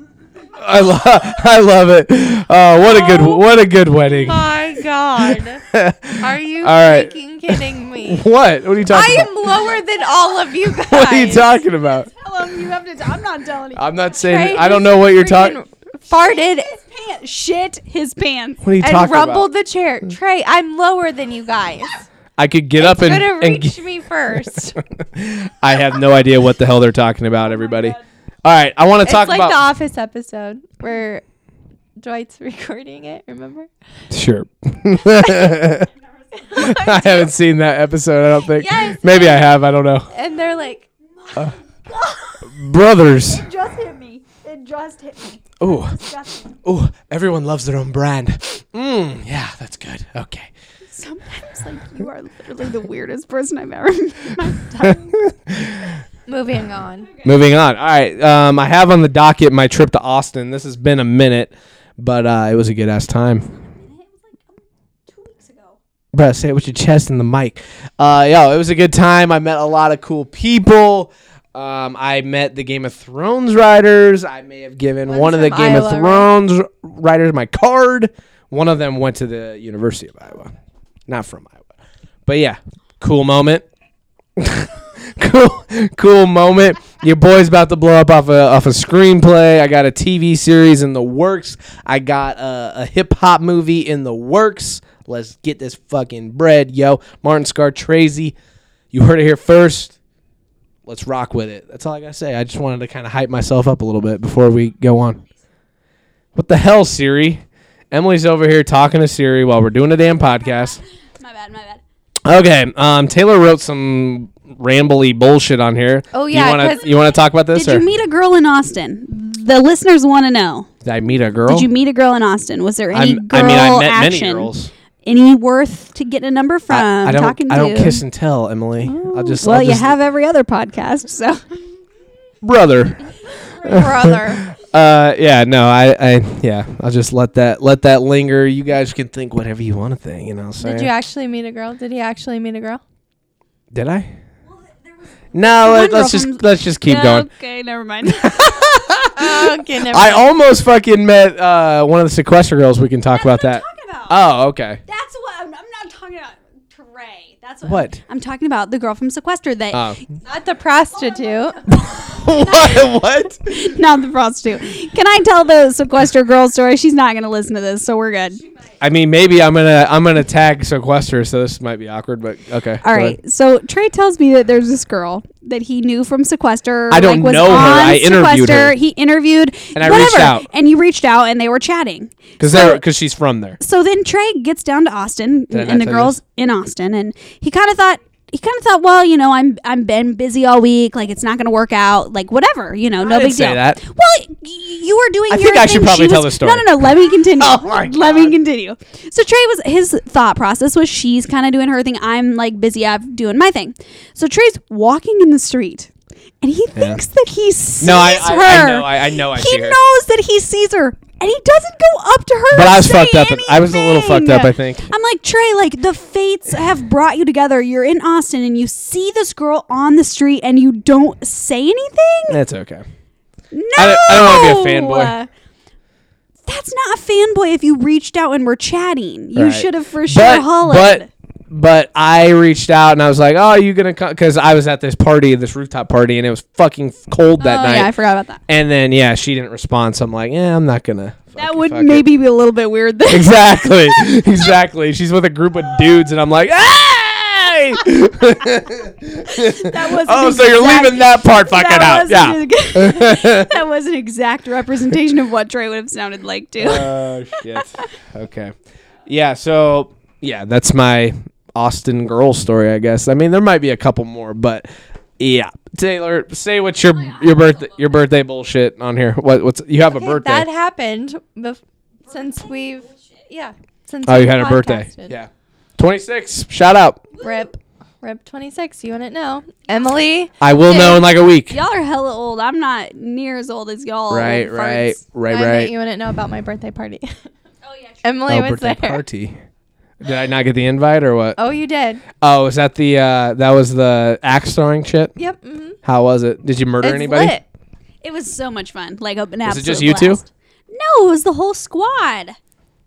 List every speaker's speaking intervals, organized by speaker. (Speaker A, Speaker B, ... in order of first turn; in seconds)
Speaker A: 0.5-4.5, 5.7-9.6, 10.8-12.1, 13.7-15.6, 18.6-19.5, 22.4-23.8, 24.8-29.6, 34.1-35.9, 36.6-40.1, 42.5-43.5, 45.6-46.0, 46.6-50.5, 54.8-56.0, 57.2-63.5, 66.1-80.5, 81.1-81.6, 82.3-83.7, 84.4-98.4, 98.9-100.0, 100.9-105.2, 106.3-110.8, 112.2-117.9, 120.8-121.7, 122.9-124.7, 126.7-129.9, 132.4-140.9, 143.7-144.1, 145.3-147.3, 148.1-154.8, 157.6-158.0, 159.7-160.0, 161.7-163.5, 168.8-173.2, 176.9-178.8, 179.8-180.5, 182.4-183.6, 185.5-186.2, 193.0-193.8, 195.3-198.4, 206.8-207.0, 207.8-209.8, 212.5-214.9, 222.3-222.9, 223.8-225.1, 229.3-237.9, 238.5-242.1, 243.1-253.6, 256.6-258.5, 259.1-270.5, 274.1-277.0, 280.4-281.6, 284.1-285.7, 288.3-289.4, 290.0-291.4, 292.2-295.1, 295.8-297.4, 299.4-300.2
Speaker B: 4.2-5.6, 6.2-8.2, 8.9-11.4, 14.2-16.7, 18.8-22.1, 22.8-24.8, 29.0-31.2, 32.0-33.7, 36.5-37.3, 38.6-39.4, 40.1-40.9, 56.3-57.1, 75.1-76.3, 116.1-116.9, 133.6-134.5, 140.6-142.8, 149.2-150.3, 160.2-161.6, 269.9-275.1, 277.2-281.0, 285.3-287.1, 288.0-289.0, 291.4-292.0, 295.2-295.8, 296.8-297.4
Speaker C: 12.1-13.9, 16.1-18.6, 27.5-28.0, 41.2-42.5, 43.2-46.5, 50.9-55.2, 63.5-65.8, 110.4-111.8, 117.5-120.7, 121.5-124.5, 125.0-128.0, 128.8-131.6, 144.6-148.7, 153.1-154.2, 154.9-160.0, 161.0-168.4, 172.8-182.8, 183.6-205.9, 206.4-222.4, 223.5-225.3, 226.5-231.1, 237.4-238.4, 241.4-244.5, 249.3-257.6, 267.3-267.7, 272.1-272.9, 281.5-285.0, 287.6-288.2, 298.0-302.4